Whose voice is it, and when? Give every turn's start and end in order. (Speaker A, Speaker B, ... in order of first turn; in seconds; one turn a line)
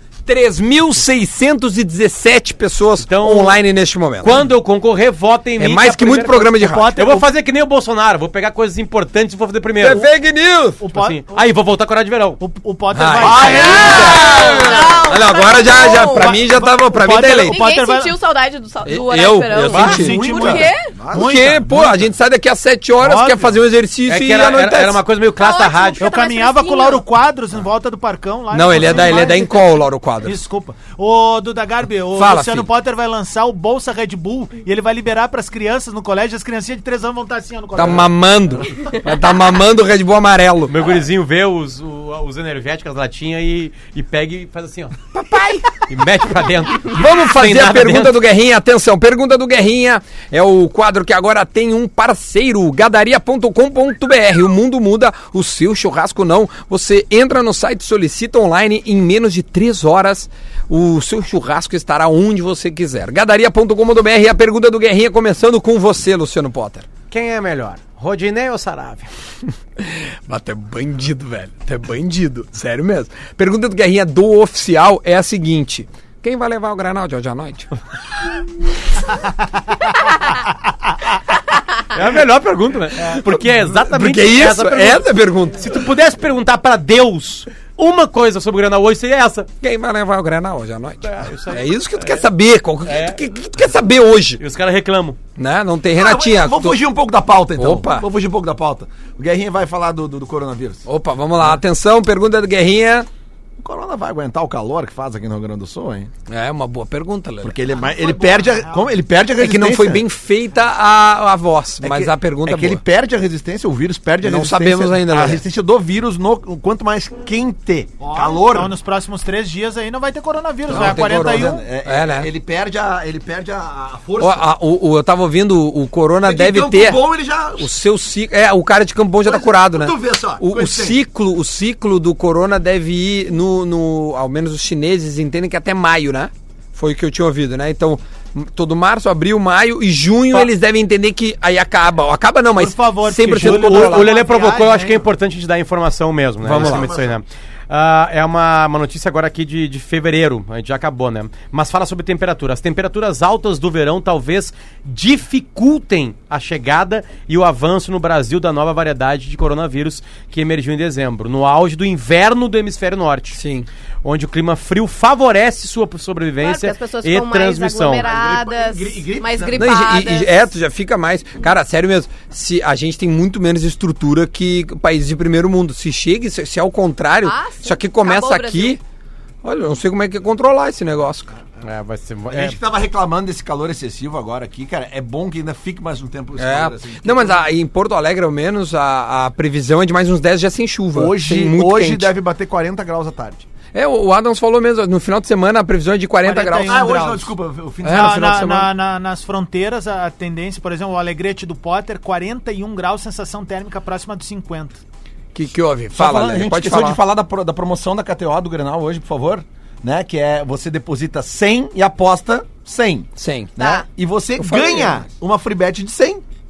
Speaker A: 0.2-4.4
Speaker B: 3.0-3.6
Speaker B: 4.2-10.1
Speaker A: 5.6-6.9
Speaker C: 6.5-7.3
Speaker A: 9.8-10.8
Speaker C: 10.8-11.4
Speaker B: 10.9-12.4
Speaker C: 12.4-14.1
Speaker A: 12.9-17.6
Speaker D: 13.2-14.8
Speaker E: 13.6-16.3
Speaker C: 15.8-18.1
Speaker E: 17.4-20.9
Speaker A: 18.8-20.2
Speaker B: 19.6-20.0
Speaker C: 19.7-22.1
Speaker D: 19.8-21.5
Speaker A: 21.1-25.0
Speaker C: 23.0-23.6
Speaker B: 24.1-26.0
Speaker E: 25.4-27.0
Speaker C: 26.0-29.6
Speaker A: 28.5-30.4
Speaker C: 30.2-38.2
Speaker A: 32.1-32.7
Speaker A: 37.7-40.9
Speaker B: 40.7-45.0
Speaker A: 45.1-45.8
Speaker B: 45.9-48.2
Speaker A: 46.9-66.8
Speaker B: 67.1-69.1
Speaker A: 69.8-77.7
Speaker B: 81.9-89.5
Speaker A: 83.2-85.7
Speaker A: 89.6-94.4
Speaker B: 91.0-92.2
Speaker B: 92.8-93.2
Speaker B: 94.4-95.2
Speaker A: 95.3-96.8
Speaker D: 95.9-100.8
Speaker A: 97.5-98.0
Speaker A: 100.8-103.1
Speaker D: 103.6-106.1
Speaker A: 106.3-107.6
Speaker D: 107.4-110.0
Speaker C: 107.7-108.9
Speaker A: 109.4-112.8
Speaker D: 111.8-118.7
Speaker A: 114.2-115.4
Speaker C: 118.0-121.6
Speaker A: 120.7-122.3
Speaker D: 120.7-124.5
Speaker A: 124.2-144.1
Speaker D: 126.2-127.7
Speaker D: 129.2-131.0
Speaker C: 142.5-145.1
Speaker B: 143.3-163.4
Speaker A: 146.4-146.9
Speaker D: 146.4-147.2
Speaker A: 163.3-163.7
Speaker B: 164.0-168.1
Speaker E: 166.4-170.3
Speaker D: 168.0-169.7
Speaker A: 169.5-178.8
Speaker E: 177.2-178.8
Speaker A: 179.4-181.3
Speaker B: 181.6-182.6
Speaker D: 182.3-187.4
Speaker A: 186.4-192.1
Speaker D: 190.9-193.4
Speaker A: 193.7-196.9
Speaker C: 196.2-197.3
Speaker D: 196.6-198.3
Speaker A: 197.8-198.7
Speaker C: 197.8-204.8
Speaker A: 205.3-207.0
Speaker D: 205.9-216.2
Speaker A: 213.2-213.5
Speaker E: 213.6-213.9
Speaker A: 214.4-215.0